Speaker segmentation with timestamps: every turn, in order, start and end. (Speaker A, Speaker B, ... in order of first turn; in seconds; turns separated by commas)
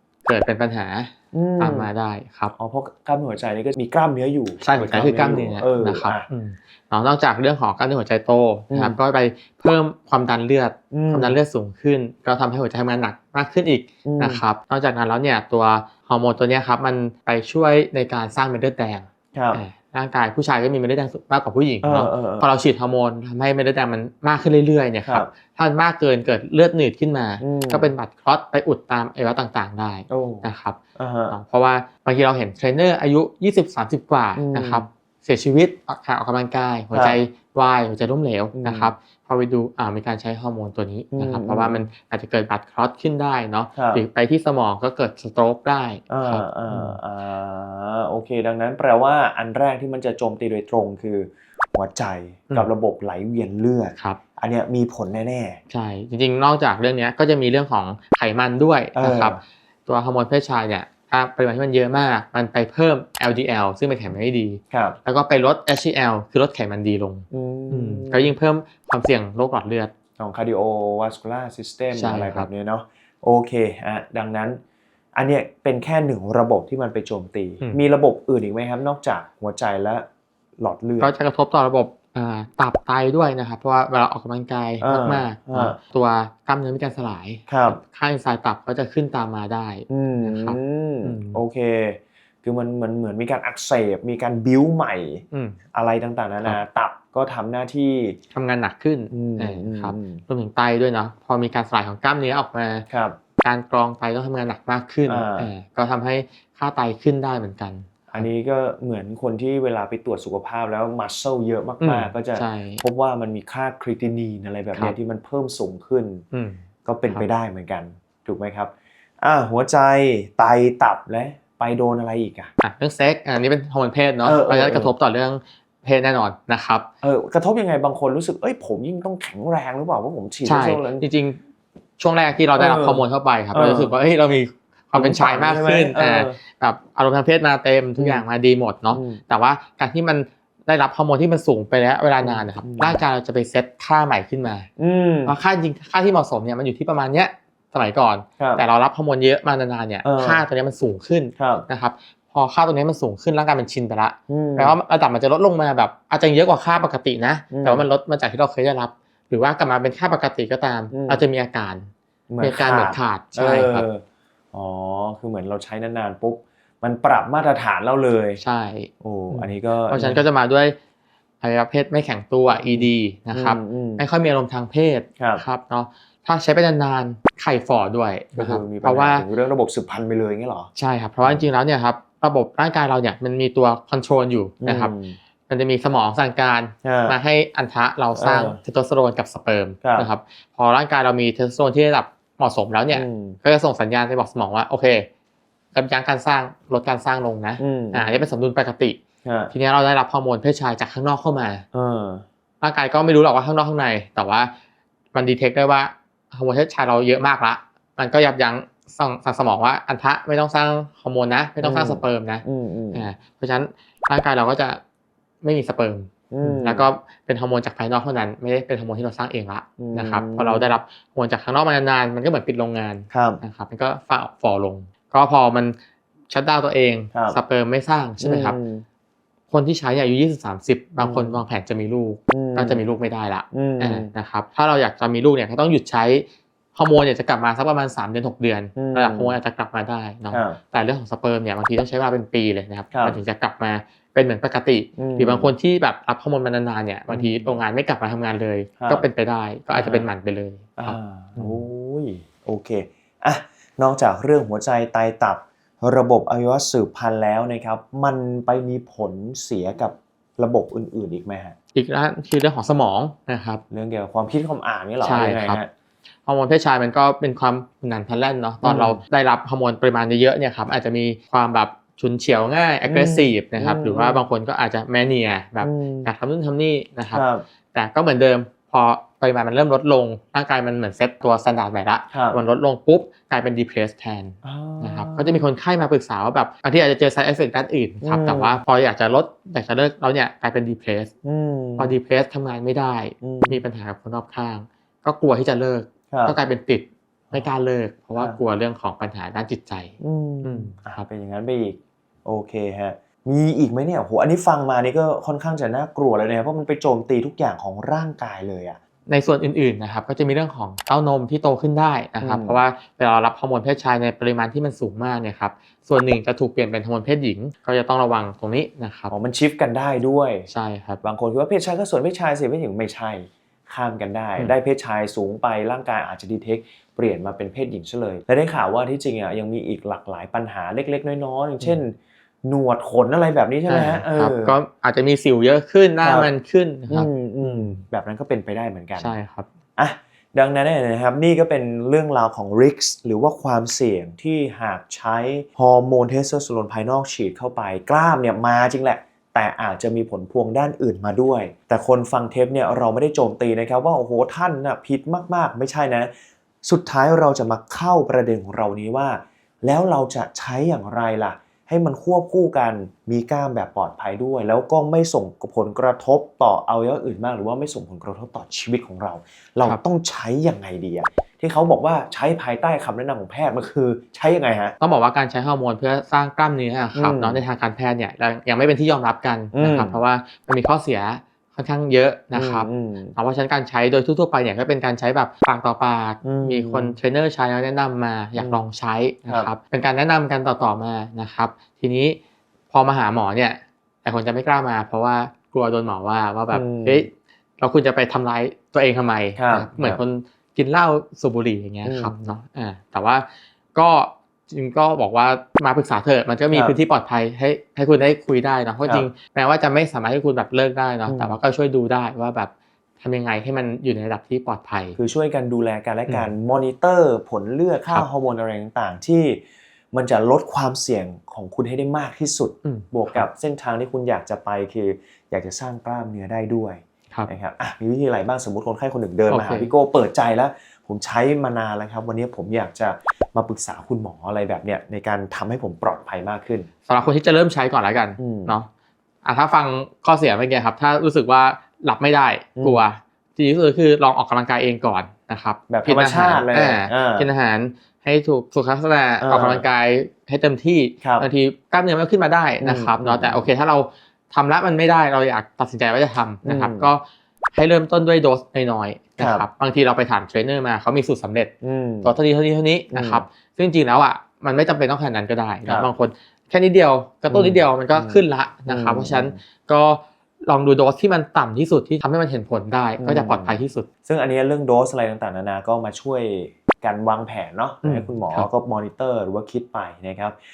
Speaker A: 0.2-2.5, Speaker B: 1.3-1.9, Speaker B: 2.5-6.3, Speaker A: 4.6-30.8, Speaker B: 8.7-9.0, Speaker B: 10.9-11.4, Speaker B: 14.0-14.4, Speaker B: 19.3-19.6, Speaker B: 21.8-22.5, Speaker B: 27.4-27.9, Speaker B: 30.1-31.4, Speaker A: 31.3-47.0, Speaker B: 34.4-34.8, Speaker B: 36.9-37.2, Speaker B: 38.5-38.9, Speaker B: 41.1-41.9, Speaker B: 43.8-44.0, Speaker B: 46.1-55.6, Speaker A: 55.7-69.9, Speaker B: 58.9-59.4, Speaker B: 64.7-65.0, Speaker B: 67.3-68.3, Speaker B: 70.2-74.6, Speaker A: 71.9-72.5, Speaker B: 75.1-80.0, Speaker B: 80.6-81.1, Speaker A: 81.0-91.4, Speaker B: 84.8-85.8, Speaker B: 87.5-87.8, Speaker B: 89.9-98.2, Speaker A: 95.3-95.6, Speaker A: 98.3-102.8, Speaker B: 99.1-100.2, Speaker B: 102.9-103.2, Speaker A: 103.4-108.3, Speaker B: 105.0-105.5, Speaker B: 108.1-116.2, Speaker A: 111.8-112.8, Speaker A: 116.3-117.2, Speaker B: 116.8-122.5, Speaker A: 122.6-126.9, Speaker B: 124.2-124.9, Speaker B: 127.0-131.1, Speaker A: 130.4-131.4, Speaker A: 132.0-144.7, Speaker B: 132.6-134.0, Speaker B: 134.9-136.4, Speaker B: 138.0-138.2, Speaker B: 138.9-139.2, Speaker B: 142.2-143.0, Speaker B: 144.8-145.3, Speaker A: 145.2-163.9, Speaker B: 150.0-150.4, Speaker B: 151.4-151.7, Speaker B: 154.3-154.8, Speaker B: 157.5-157.9, Speaker B: 160.9-161.2, Speaker B: 162.3-168.4, Speaker A: 168.4-170.8, Speaker B: 169.0-170.2, Speaker A: 171.4-179.2, Speaker B: 172.5-174.0, Speaker B: 178.3-180.7, Speaker A: 180.8-184.9, Speaker B: 184.6-185.2, Speaker A: 185.5-195.1, Speaker B: 186.8-187.2, Speaker B: 188.2-188.6, Speaker B: 189.8-190.1, Speaker B: 192.9-193.4, Speaker A: 195.7-199.0, Speaker B: 197.6-198.2, Speaker B: 199.2-199.5, Speaker A: 199.5-201.6, Speaker B: 201.7-202.2, Speaker A: 202.6-204.5, Speaker A: 205.1-214.8, Speaker B: 211.6-213.1, Speaker A: 215.4-225.8, Speaker B: 216.3-216.9, Speaker B: 219.8-220.7, Speaker B: 223.1-223.4, Speaker A: 226.3-228.6, Speaker B: 227.1-227.4, Speaker B: 228.2-228.8, Speaker A: 229.5-251.7, Speaker B: 231.0-231.4, Speaker B: 232.3-232.8, Speaker B: 233.5-234.1, Speaker B: 238.8-239.4, Speaker B: 240.3-240.6, Speaker B: 242.9-243.2, Speaker B: 245.0-245.5, Speaker B: 247.1-247.5, Speaker B: 248.8-249.0, Speaker B: 249.8-250.1, Speaker B: 250.8-261.5, Speaker A: 261.7-263.6, Speaker B: 263.7-265.7, Speaker A: 265.0-265.6, Speaker A: 266.2-291.1, Speaker B: 268.6-269.0, Speaker B: 272.9-274.2, Speaker B: 275.6-276.1, Speaker B: 277.1-277.4, Speaker B: 282.1-282.4, Speaker B: 284.4-285.4, Speaker B: 288.0-288.6, Speaker B: 291.2-292.0, Speaker A: 291.8-301.0, Speaker B: 293.2-293.6, Speaker B: 296.1-296.4, Speaker B: 300.0-308.8, Speaker A: 309.1-319.1, Speaker B: 312.2-312.6, Speaker B: 319.1-320.5, Speaker A: 320.5-321.0, Speaker B: 321.0-334.6, Speaker A: 333.7-337.8, Speaker B: 336.0-336.3, Speaker B: 336.9-339.1, Speaker A: 339.0-339.5, Speaker B: 339.8-356.1, Speaker B: 356.6-374.7, Speaker A: 374.8-392.2, Speaker B: 376.9-377.4, Speaker B: 379.5-380.0, Speaker B: 382.3-383.1, Speaker B: 386.2-387.0, Speaker B: 388.4-388.6, Speaker A: 392.7-415.0, Speaker B: 396.5-397.1, Speaker B: 399.4-400.0, Speaker B: 401.8-402.1, Speaker B: 406.5-406.8, Speaker B: 408.8-409.1, Speaker B: 411.1-411.4, Speaker B: 415.0-436.7, Speaker A: 422.6-423.2, Speaker A: 429.3-429.7, Speaker A: 436.9-438.7, Speaker B: 438.2-438.6, Speaker A: 439.2-457.0, Speaker B: 442.6-442.8, Speaker B: 445.7-447.3, Speaker B: 449.2-449.6, Speaker B: 452.6-453.5, Speaker B: 456.4-456.9, Speaker A: 457.5-461.5, Speaker B: 459.2-459.4, Speaker B: 461.6-462.1, Speaker A: 462.0-473.9, Speaker B: 462.9-463.2, Speaker B: 467.3-469.4, Speaker B: 473.0-480.4, Speaker A: 477.8-478.5